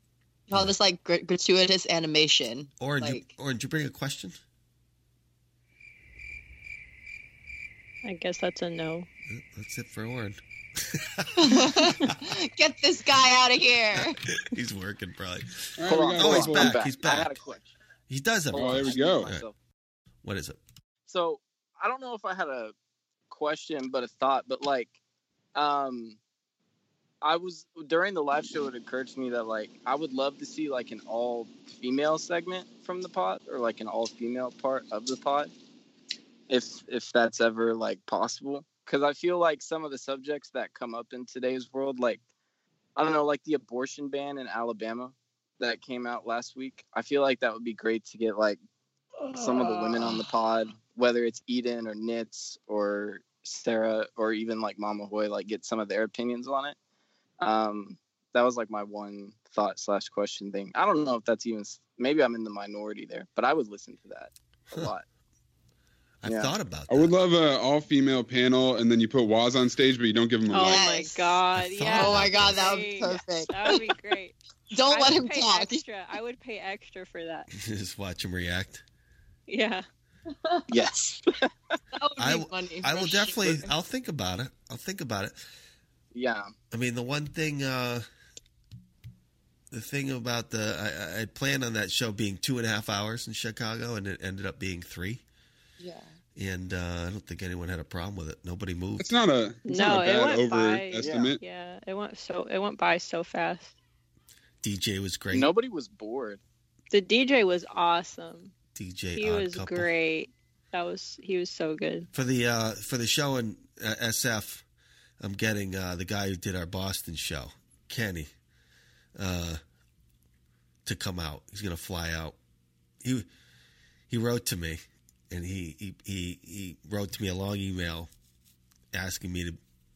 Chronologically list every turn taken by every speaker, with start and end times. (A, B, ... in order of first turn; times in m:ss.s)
0:00.5-0:03.3 A
0:00.5-0:00.8 B
0:02.8-0:04.4 B
0:08.0-0:09.1 C
0:09.3-0:12.1 B
0:11.4-0:14.2 A
0:14.0-0:17.4 B
0:15.8-0:16.7 D
0:15.8-0:17.7 E
0:18.1-0:19.4 B
0:18.5-0:19.5 E
0:18.6-0:19.4 D
0:20.2-0:20.6 B
0:21.0-0:22.7 E
0:23.3-0:24.9 E
0:25.5-0:26.2 E
0:27.2-0:35.5 E
0:36.5-0:42.2 E
0:43.0-0:48.6 E
0:49.3-0:56.8 E
0:49.7-0:50.1 A
0:57.4-1:05.0 E
1:06.2-1:07.1 B
1:06.2-1:06.5 E
1:06.9-1:10.8 D
1:10.5-1:14.4 C
1:10.5-1:11.4 A
1:11.5-1:12.6 B
1:11.9-1:13.8 A
1:14.7-1:15.8 A
1:14.9-1:17.5 C
1:17.5-1:18.8 B
1:19.5-1:19.8 C
1:20.7-1:21.2 E
1:21.9-1:23.7 A
1:22.2-1:25.4 B
1:26.1-1:26.5 E
1:26.7-1:28.0 B
1:29.7-1:35.2 B
1:35.8-1:36.1 A
1:36.4-1:39.2 B
1:39.0-1:41.4 D
1:39.6-1:43.7 C
1:41.0-1:41.3 E
1:44.6-1:45.5 B
1:45.3-1:46.4 E
1:46.9-1:48.5 C
1:48.7-1:49.9 B
1:49.2-1:52.1 C
1:52.1-1:54.6 B
1:55.2-1:58.3 B
1:59.2-1:59.6 B
2:00.8-2:02.4 B
2:03.0-2:03.3 B
2:04.1-2:08.1 B
2:08.9-2:09.6 B